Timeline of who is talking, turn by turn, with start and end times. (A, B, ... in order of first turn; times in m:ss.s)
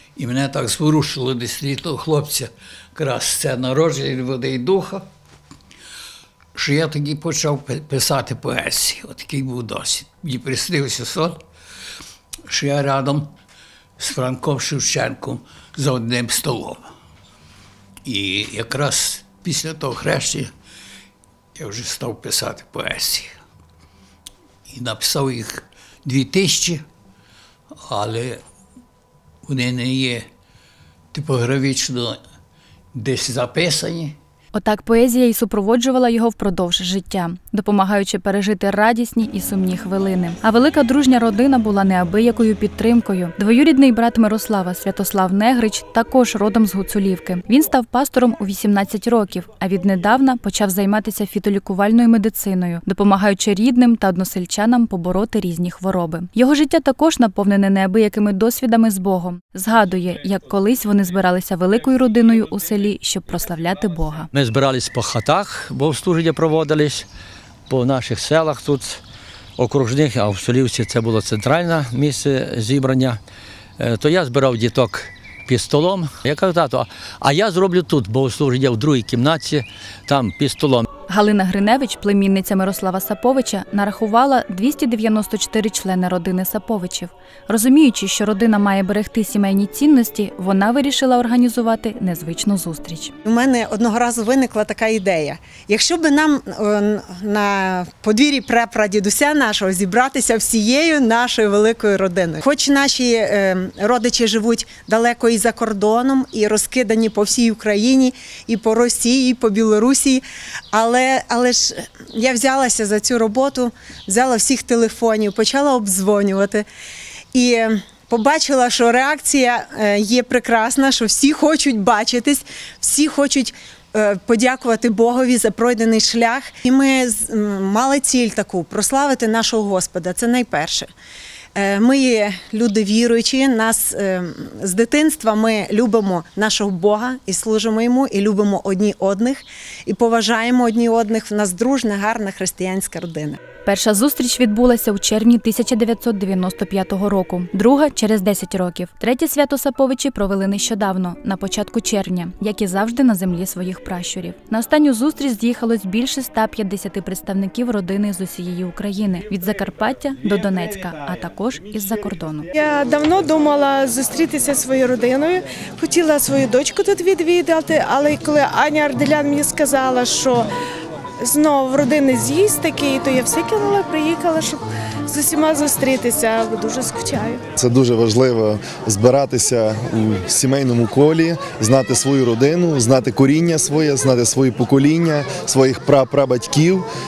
0:00.2-0:05.1 A
0:06.5-0:11.4 A
0:12.5-0:13.3 A
0:14.0-0:16.8 A
0:18.0-0:20.5 A
0:21.6-0:23.3 A
0:24.7-0:26.8 A
0:27.8-0:28.4 A
0:29.4-0:30.3 A
0:31.1-0:32.2 A
0:32.9-0:34.2 A
0:34.5-1:04.3 B
1:04.3-1:07.1 C
1:07.7-1:09.0 C
1:09.6-1:13.2 C
1:13.8-1:20.8 C
1:21.1-1:33.1 B
1:33.2-1:56.6 D
1:57.3-2:10.9 D
2:11.5-2:23.4 D
2:23.6-2:42.5 B
2:42.5-2:50.5 E
2:51.2-2:57.4 E
2:57.6-3:06.8 F